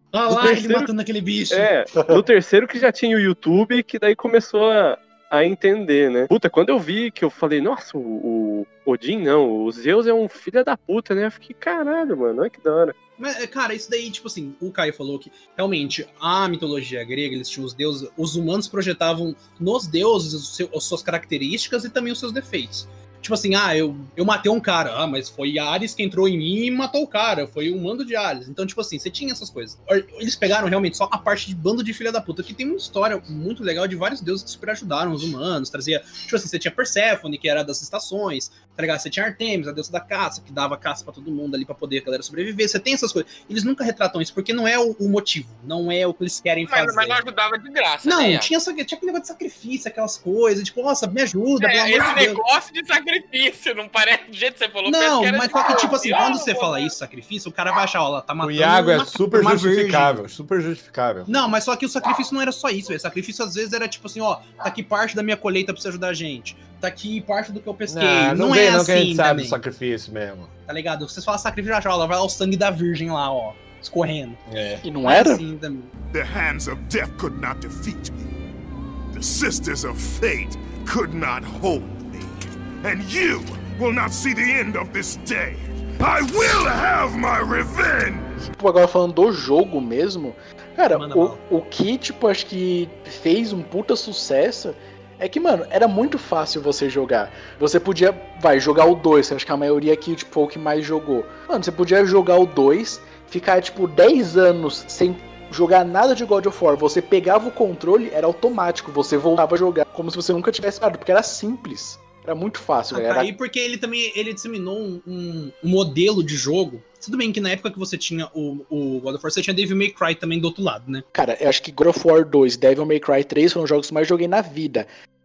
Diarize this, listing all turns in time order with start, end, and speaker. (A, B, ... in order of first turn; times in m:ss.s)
0:00.1-0:01.7 A
0:00.3-0:00.9 B
0:01.5-0:13.0 B
0:13.2-0:47.2 A
0:46.7-0:48.5 C
0:48.0-0:52.4 A
0:51.6-0:57.0 C
0:54.9-1:00.2 A
0:58.4-1:01.4 D
1:01.3-1:09.6 A
1:07.9-1:10.5 D
1:10.7-1:14.4 A
1:14.5-1:14.8 D
1:14.8-1:15.4 E
1:15.0-1:15.9 A
1:16.1-1:18.2 F
1:19.1-1:28.5 F
1:28.6-1:53.3 E
1:30.9-1:31.4 A
1:52.9-2:01.0 A
2:01.1-2:04.9 E